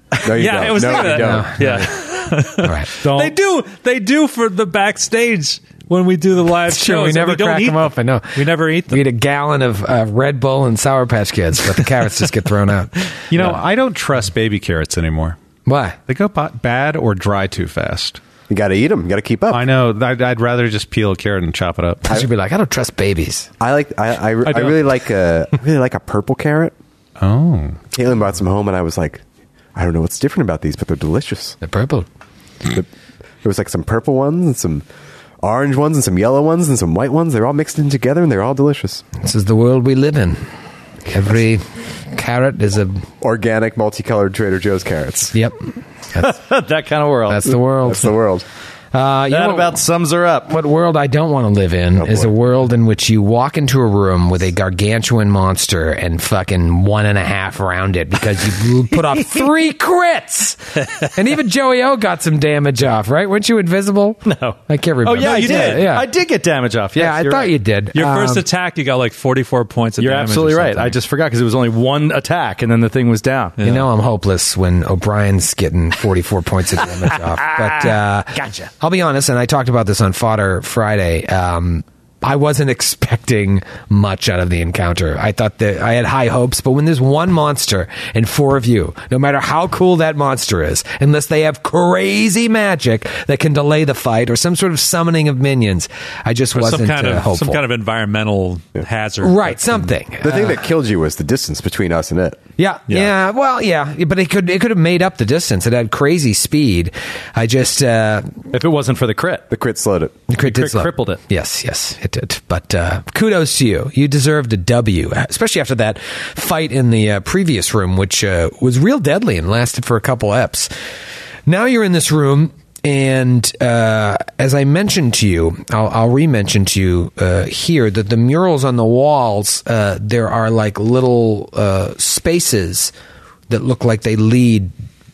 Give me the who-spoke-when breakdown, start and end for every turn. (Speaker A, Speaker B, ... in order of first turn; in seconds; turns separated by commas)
Speaker A: 0.2-1.9, Speaker B: 0.2-9.0, Speaker C: 1.0-1.9, Speaker C: 2.6-2.9, Speaker D: 3.0-3.3, Speaker C: 6.7-13.4, Speaker E: 13.3-15.4, Speaker C: 15.7-16.0, Speaker E: 16.1-18.2, Speaker A: 18.5-19.6, Speaker E: 19.5-22.1, Speaker C: 22.1-23.5, Speaker A: 23.6-26.8, Speaker E: 24.4-24.7, Speaker E: 27.2-27.8, Speaker A: 27.9-29.2, Speaker A: 29.8-31.6, Speaker C: 31.6-32.1, Speaker A: 33.4-34.9, Speaker A: 35.4-39.0, Speaker C: 39.2-40.5, Speaker C: 41.1-43.1, Speaker A: 43.2-45.3, Speaker C: 45.3-45.6, Speaker D: 46.2-47.5, Speaker C: 47.3-48.2, Speaker A: 47.9-48.5, Speaker C: 48.9-49.8, Speaker D: 49.3-50.5, Speaker C: 50.5-66.1, Speaker A: 52.0-52.3, Speaker D: 64.2-67.5, Speaker B: 65.2-65.9, Speaker C: 67.0-68.5, Speaker B: 68.0-71.0, Speaker D: 70.0-73.6, Speaker B: 73.6-73.9, Speaker C: 73.6-97.6, Speaker D: 77.5-78.0, Speaker B: 96.5-99.8, Speaker C: 99.2-100.7, Speaker A: 100.2-102.4, Speaker C: 102.6-108.3, Speaker D: 108.5-109.5, Speaker A: 109.5-110.2, Speaker C: 110.3-120.7, Speaker D: 110.4-111.2, Speaker C: 121.5-132.9, Speaker C: 133.5-134.7